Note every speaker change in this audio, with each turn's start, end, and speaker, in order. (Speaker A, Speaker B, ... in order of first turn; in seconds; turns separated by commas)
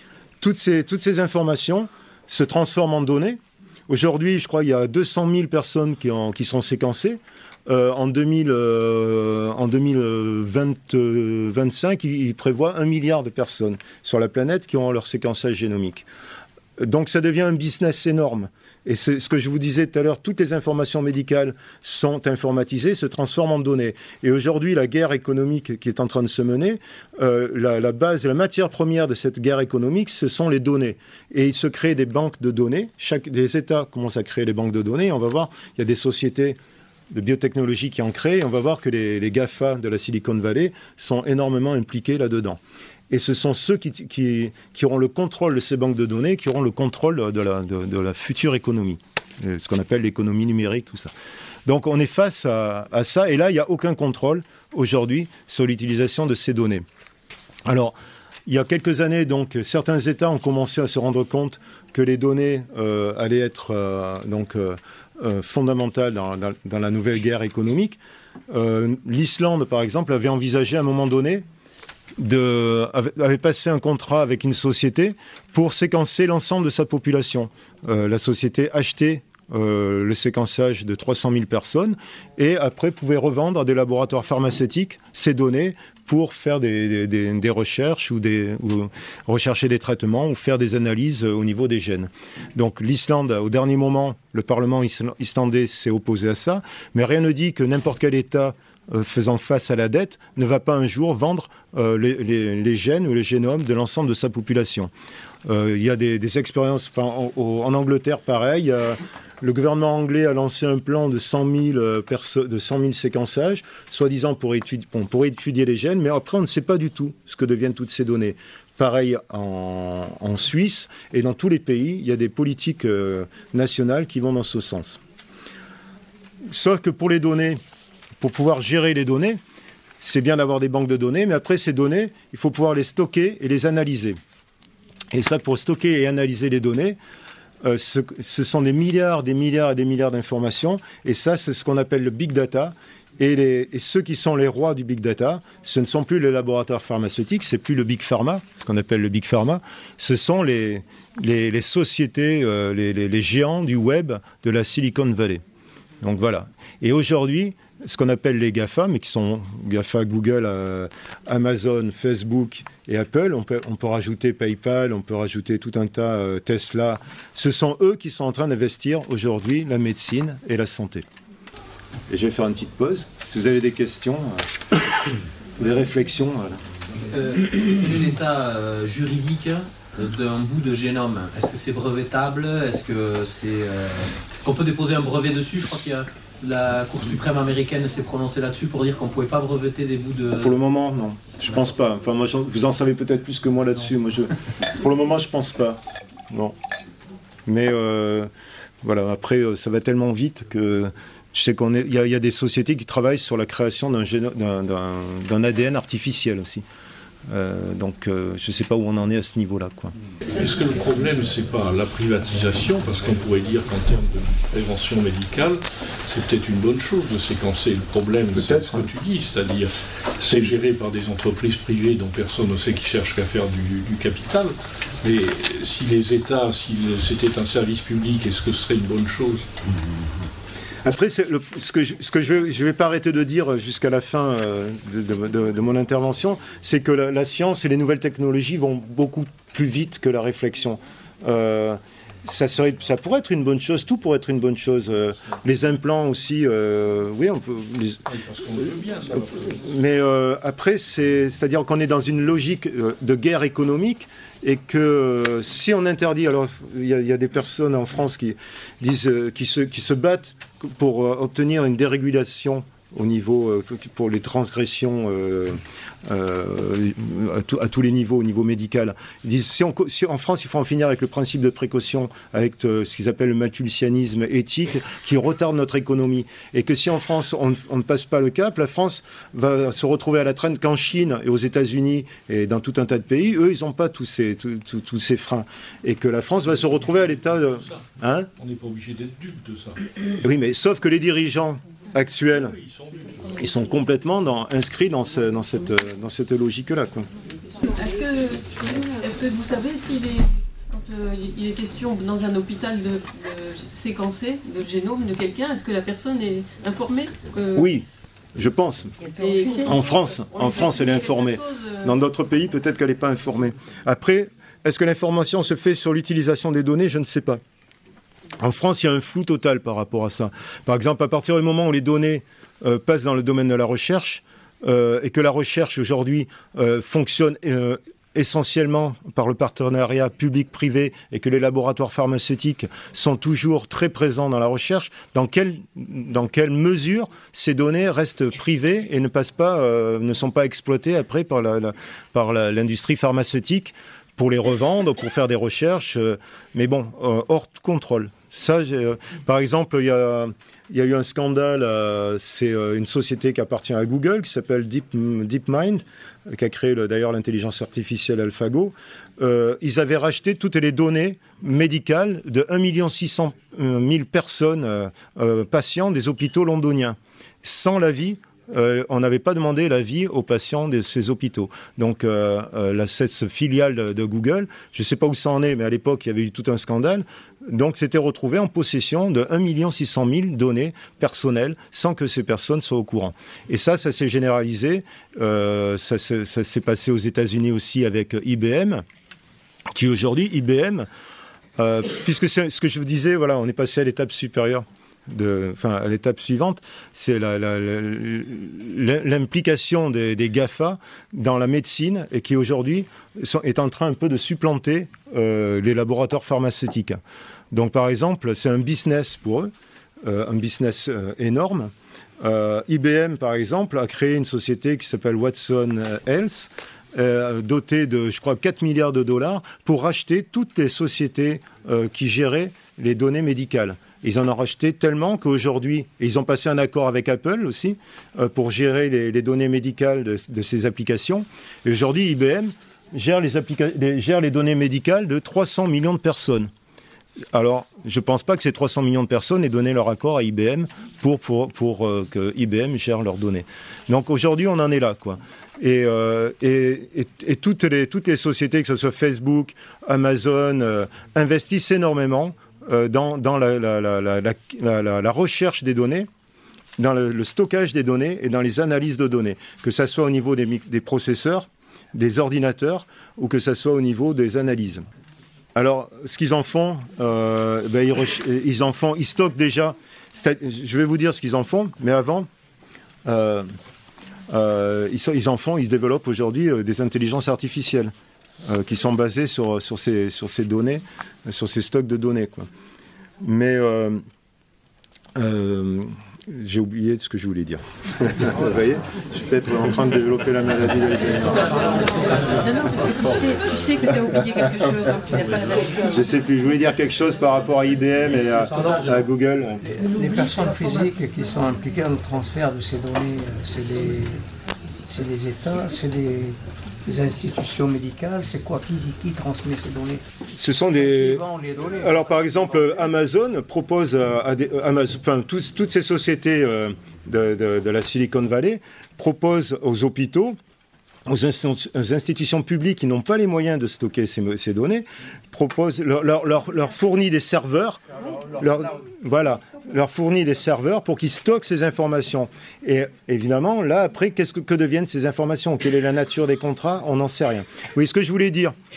Speaker A: 0.4-16.1, Speaker A: 16.8-36.6, Speaker A: 37.1-42.6, Speaker A: 43.1-51.1, Speaker A: 51.6-56.8, Speaker A: 57.6-68.0, Speaker A: 68.5-71.4, Speaker A: 72.2-104.9, Speaker A: 105.4-125.0, Speaker A: 126.5-127.6, Speaker A: 128.2-129.4, Speaker A: 130.0-134.2, Speaker A: 135.1-137.0, Speaker A: 137.6-155.4, Speaker A: 156.0-171.1, Speaker A: 172.1-174.4, Speaker A: 175.6-176.6, Speaker B: 177.1-190.6, Speaker A: 190.4-196.5, Speaker A: 197.4-198.3, Speaker A: 198.8-206.6, Speaker A: 207.3-209.9, Speaker C: 210.3-229.4, Speaker A: 218.3-218.8, Speaker A: 230.8-248.0, Speaker C: 248.1-249.5, Speaker A: 249.4-288.3, Speaker C: 288.4-289.9, Speaker A: 290.2-292.6, Speaker C: 292.4-293.3, Speaker A: 293.4-297.1, Speaker D: 297.6-307.7, Speaker A: 307.5-308.9, Speaker D: 309.1-311.9, Speaker A: 309.6-317.4, Speaker A: 318.4-388.8, Speaker A: 389.7-390.9, Speaker A: 391.6-407.0, Speaker A: 407.5-409.5, Speaker A: 410.0-436.5, Speaker A: 437.3-456.1, Speaker A: 456.8-464.8, Speaker A: 465.5-472.3, Speaker A: 473.0-473.4, Speaker A: 474.3-477.9, Speaker A: 478.4-482.5, Speaker A: 483.2-484.0, Speaker A: 485.1-493.1, Speaker D: 491.2-496.1, Speaker A: 495.9-499.6, Speaker B: 498.6-499.0, Speaker E: 499.6-504.2, Speaker E: 504.8-510.0, Speaker A: 510.3-511.2, Speaker E: 510.8-512.0, Speaker A: 511.8-520.4, Speaker A: 521.0-527.8, Speaker A: 528.3-538.5